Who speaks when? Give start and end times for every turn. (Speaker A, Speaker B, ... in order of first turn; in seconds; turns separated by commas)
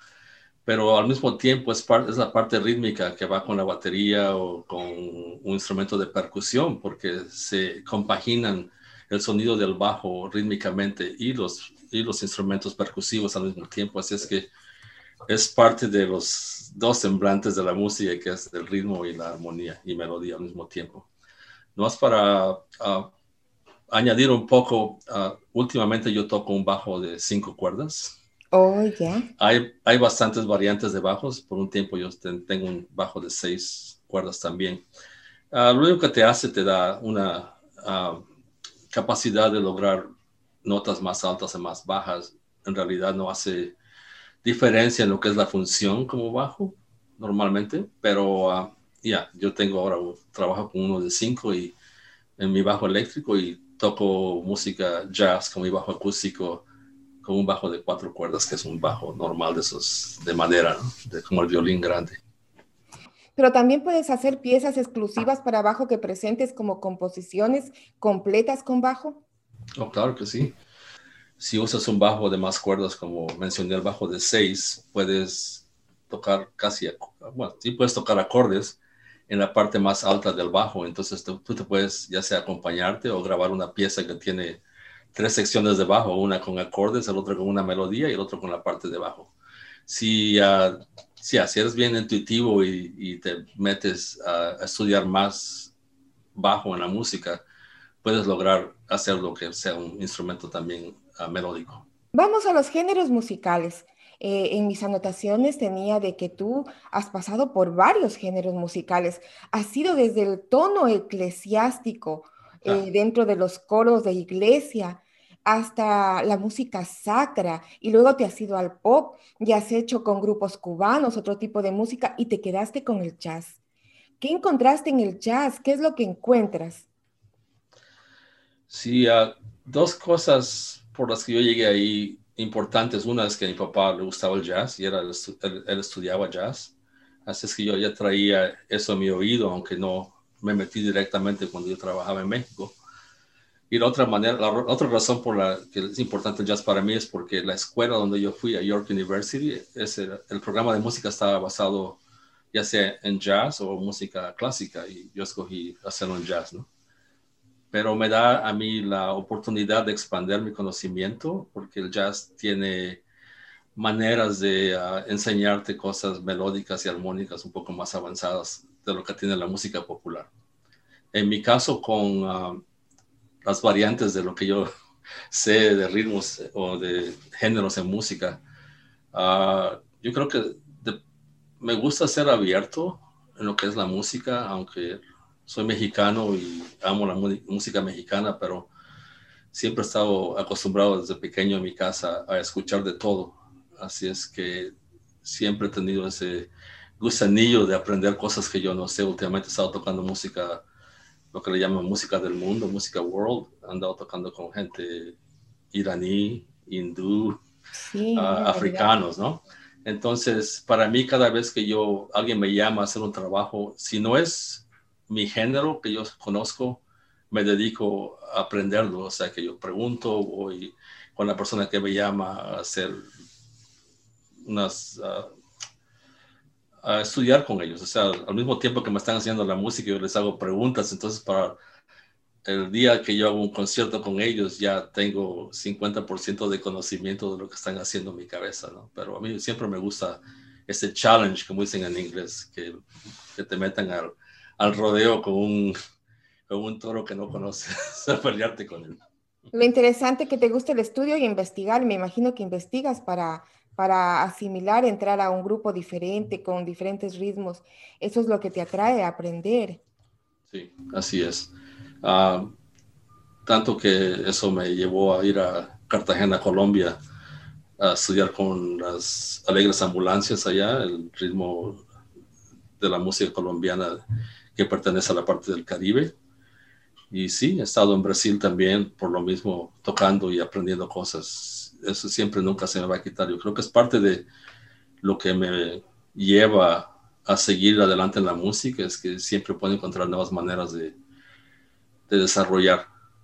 Speaker A: 0.7-14.5, Speaker A: 15.3-21.1, Speaker A: 21.8-23.1, Speaker A: 23.9-28.2, Speaker B: 28.5-29.3, Speaker A: 29.4-34.8, Speaker A: 35.5-38.2, Speaker A: 38.9-40.1, Speaker A: 40.6-43.7, Speaker A: 44.4-51.7, Speaker A: 52.4-56.6, Speaker A: 57.2-62.2, Speaker B: 63.4-69.2, Speaker A: 69.8-70.5, Speaker A: 71.4-78.8, Speaker A: 79.3-84.6, Speaker A: 85.1-89.3, Speaker A: 89.9-95.7, Speaker A: 96.3-97.4, Speaker A: 98.0-101.8, Speaker B: 102.1-123.6, Speaker B: 124.2-126.8, Speaker A: 128.7-136.7, Speaker A: 137.2-142.7, Speaker A: 143.7-152.0, Speaker A: 152.5-156.7, Speaker A: 157.7-163.0, Speaker A: 163.8-170.3, Speaker A: 171.1-172.6, Speaker A: 173.4-174.7, Speaker A: 175.3-178.4, Speaker A: 179.1-181.0, Speaker A: 181.6-188.7, Speaker A: 189.5-194.7, Speaker A: 195.2-196.5, Speaker A: 197.0-200.6, Speaker A: 201.3-205.2, Speaker A: 205.7-207.4, Speaker B: 207.7-208.9, Speaker A: 208.2-223.1, Speaker A: 224.4-225.3, Speaker A: 226.8-231.6, Speaker A: 232.4-242.8, Speaker A: 243.3-245.8, Speaker A: 246.5-249.0, Speaker B: 249.5-259.8, Speaker A: 260.5-261.5, Speaker A: 262.0-262.5, Speaker A: 263.4-267.0, Speaker A: 267.8-271.8, Speaker A: 272.8-274.0, Speaker A: 274.5-276.1, Speaker A: 277.1-284.3, Speaker A: 285.0-290.9, Speaker A: 292.1-292.8